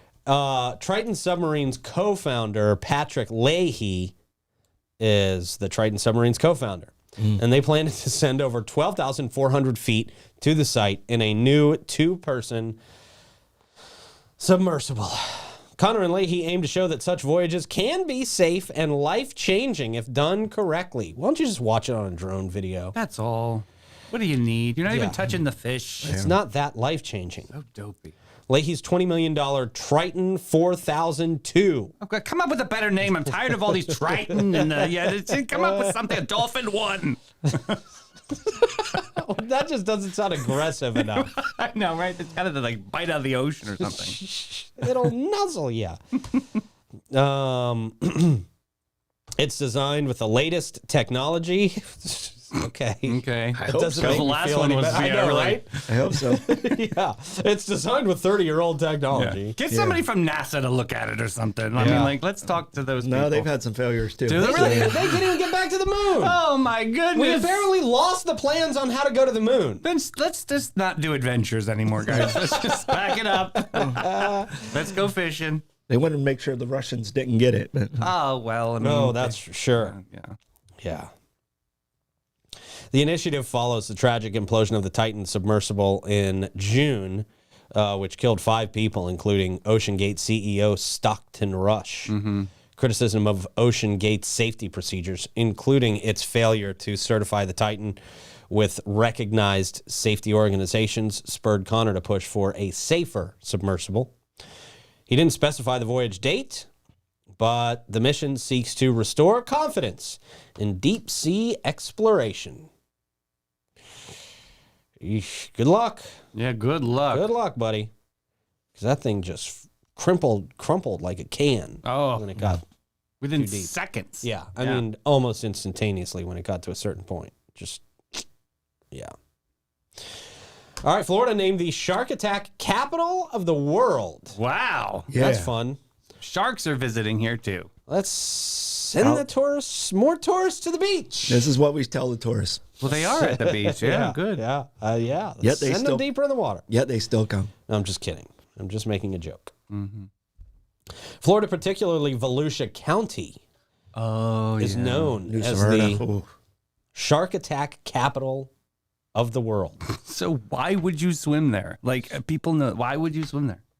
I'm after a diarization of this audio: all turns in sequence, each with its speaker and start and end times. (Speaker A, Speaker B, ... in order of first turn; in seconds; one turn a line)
Speaker A: 0.3-4.2
Speaker A: 5.0-12.8
Speaker A: 14.4-22.9
Speaker B: 22.9-26.2
Speaker A: 24.9-25.2
Speaker A: 26.0-27.5
Speaker C: 26.1-26.4
Speaker B: 27.5-28.1
Speaker A: 28.5-31.9
Speaker B: 32.0-37.8
Speaker A: 35.5-36.0
Speaker A: 38.5-41.3
Speaker B: 41.0-44.2
Speaker A: 43.9-46.0
Speaker A: 47.1-48.5
Speaker A: 49.4-59.6
Speaker B: 53.1-55.8
Speaker C: 53.6-54.3
Speaker C: 55.9-56.5
Speaker B: 59.1-63.5
Speaker C: 59.7-60.0
Speaker A: 61.8-62.2
Speaker C: 61.8-62.1
Speaker C: 63.0-65.1
Speaker B: 64.2-65.4
Speaker A: 64.4-66.4
Speaker B: 66.1-67.7
Speaker A: 67.1-69.8
Speaker B: 69.8-75.6
Speaker A: 72.1-72.8
Speaker A: 73.7-74.7
Speaker C: 75.9-78.1
Speaker B: 78.0-80.4
Speaker A: 78.8-80.0
Speaker A: 80.8-81.1
Speaker A: 82.9-92.1
Speaker B: 92.1-92.5
Speaker A: 92.8-98.0
Speaker A: 98.5-104.1
Speaker A: 105.1-106.7
Speaker A: 107.4-112.7
Speaker A: 115.0-116.1
Speaker B: 116.3-117.3
Speaker A: 117.1-117.9
Speaker A: 118.8-122.6
Speaker B: 121.8-122.6
Speaker B: 123.2-124.8
Speaker A: 123.3-128.2
Speaker A: 130.8-134.4
Speaker B: 134.3-135.1
Speaker C: 135.1-135.5
Speaker A: 135.2-135.8
Speaker B: 136.2-137.7
Speaker A: 137.9-141.5
Speaker C: 139.0-139.2
Speaker C: 141.3-142.6
Speaker B: 142.8-144.4
Speaker A: 142.9-146.6
Speaker C: 145.4-146.1
Speaker C: 146.7-147.5
Speaker A: 147.7-149.5
Speaker B: 149.7-150.1
Speaker A: 151.2-153.4
Speaker B: 153.9-155.2
Speaker A: 154.6-156.0
Speaker C: 155.3-156.3
Speaker A: 156.9-158.5
Speaker A: 159.2-159.8
Speaker B: 159.9-163.6